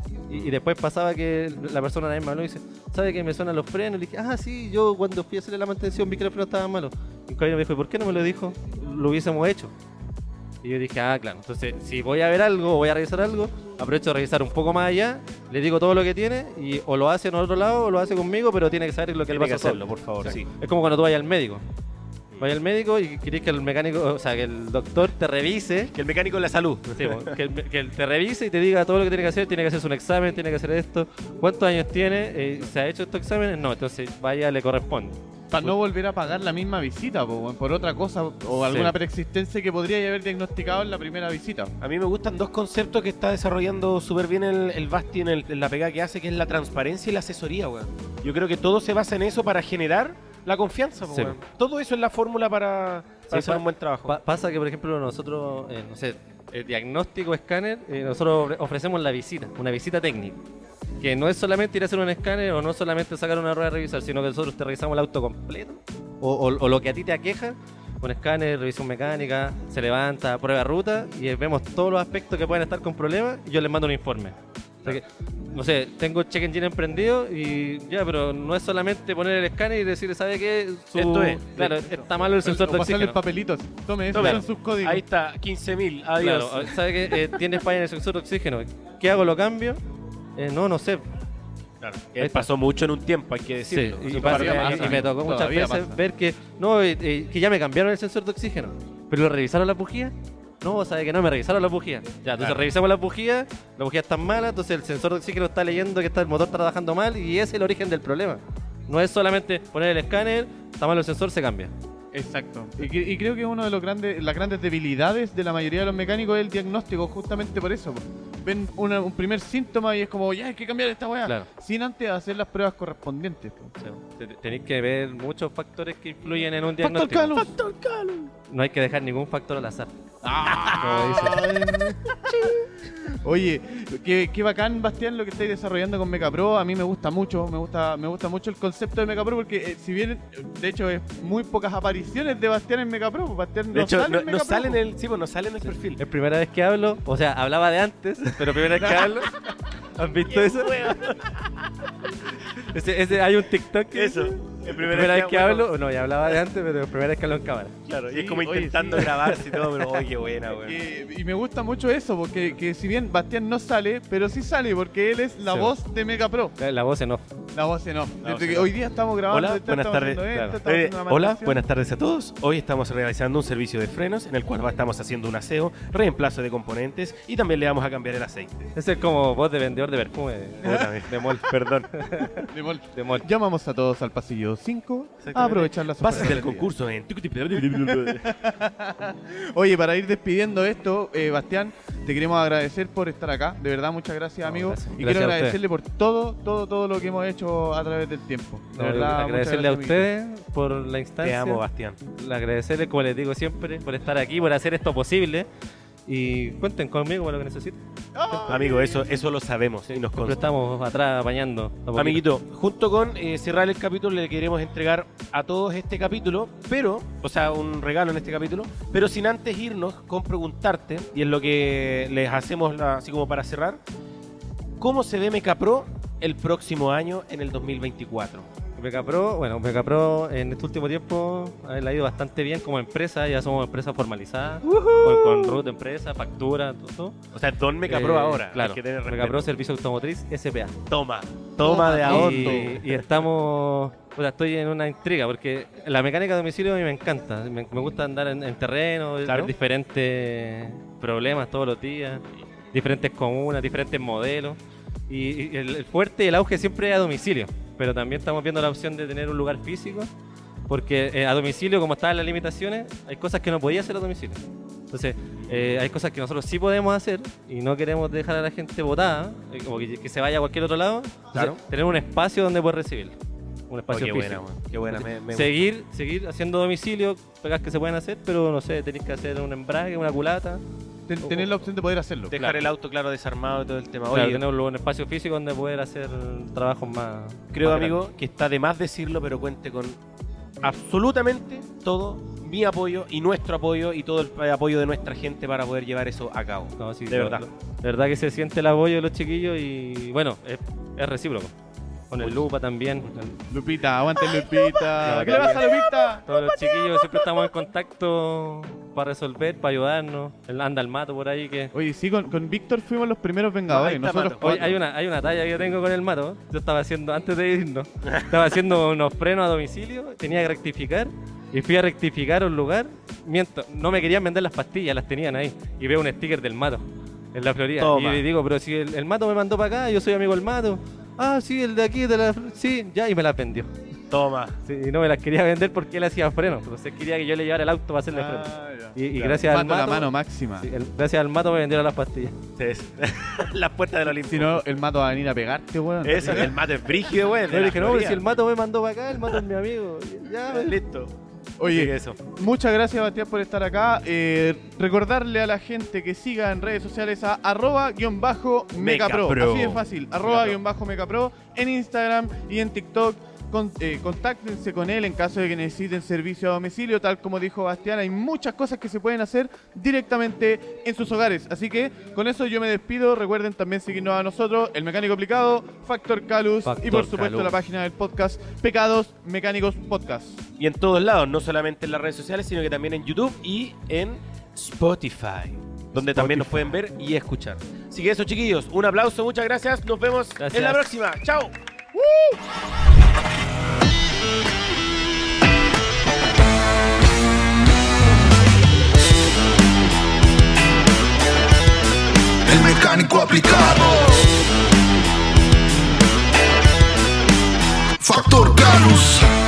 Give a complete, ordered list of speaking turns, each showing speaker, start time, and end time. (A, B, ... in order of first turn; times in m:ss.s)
0:00.3-0:09.7 A
0:10.6-0:21.6 A
0:19.3-0:20.4 B
0:22.4-0:25.9 A
0:25.9-0:27.3 B
0:27.0-0:35.7 A
0:35.5-0:41.7 C
0:38.6-0:38.9 A
0:41.8-0:54.2 B
0:51.0-0:51.4 A
0:53.3-1:00.4 A
1:01.0-1:23.2 A
1:21.0-1:22.0 B
1:22.4-1:25.0 C
1:24.1-1:27.2 B
1:24.1-1:24.4 A
1:26.2-1:29.8 A
1:30.4-1:31.0 A
1:31.8-1:35.1 B
1:32.2-1:32.5 A
1:33.7-1:51.7 A
1:34.1-1:36.0 C
1:52.1-2:03.8 C
2:03.8-2:07.4 A
2:06.8-2:08.3 C
2:08.5-2:09.9 A
2:10.2-2:24.8 C
2:10.5-2:11.0 B
2:10.6-2:11.7 A
2:23.7-2:26.0 B
2:25.7-2:29.4 A
2:28.6-2:29.0 B
2:30.0-2:31.0 A
2:30.2-2:31.7 B
2:32.6-2:37.8 A
2:33.9-2:35.7 B
2:37.9-2:40.8 B
2:38.1-2:39.4 C
2:40.6-2:46.5 C
2:45.4-2:45.7 A
2:46.6-2:47.2 A
2:47.5-2:51.6 C
2:48.2-2:48.7 B
2:49.3-2:58.7 B
2:50.3-2:50.6 A
2:58.8-3:03.2 A
3:00.6-3:01.9 B
3:02.5-3:06.7 C
3:05.2-3:08.3 B
3:07.8-3:20.1 C
3:14.4-3:15.6 A
3:18.7-3:21.6 A
3:21.2-3:22.0 B
3:22.2-3:25.5 A
3:26.1-3:27.8 A
3:28.1-3:29.0 C
3:28.4-3:30.4 B
3:29.9-3:32.2 A
3:31.9-3:43.8 B
3:44.8-3:48.5 B
3:48.8-3:57.2 A
3:54.7-3:55.6 B
3:57.3-3:59.5 B
3:57.9-4:00.7 A
4:00.9-4:03.0 B
4:01.6-4:02.8 C
4:02.0-4:14.6 A
4:09.2-4:09.5 B
4:15.1-4:20.1 A
4:20.7-4:33.2 A
4:25.4-4:25.8 B
4:33.7-4:40.6 A
4:33.9-4:35.7 B
4:41.1-4:42.3 C
4:41.2-4:41.6 A
4:42.3-4:44.4 B
4:42.3-4:42.7 A
4:44.1-4:48.0 A
4:47.5-4:50.0 B
4:50.6-4:57.4 B
4:56.8-5:01.5 A
5:02.1-5:03.4 A
5:02.1-5:02.4 B
5:03.5-5:06.2 C
5:04.2-5:07.5 B
5:05.0-5:11.7 A
5:11.7-5:14.8 C
5:13.7-5:14.6 B
5:14.4-5:33.7 A
5:27.8-5:28.2 B
5:34.1-5:34.6 B
5:34.6-5:42.4 A
5:38.1-5:40.7 C
5:39.2-5:39.4 B
5:42.6-5:44.6 B
5:44.3-5:46.5 C
5:46.0-5:48.2 B
5:46.2-5:46.5 A
5:47.5-5:50.8 A
5:50.5-5:51.1 B
5:51.6-6:20.4 C
5:51.6-5:52.2 B
5:58.8-6:00.6 B
6:16.6-6:17.5 A
6:20.6-6:31.5 B
6:25.9-6:26.6 A
6:30.4-6:30.8 A
6:31.9-6:32.4 C
6:42.4-6:44.5 D
6:48.0-6:49.3 D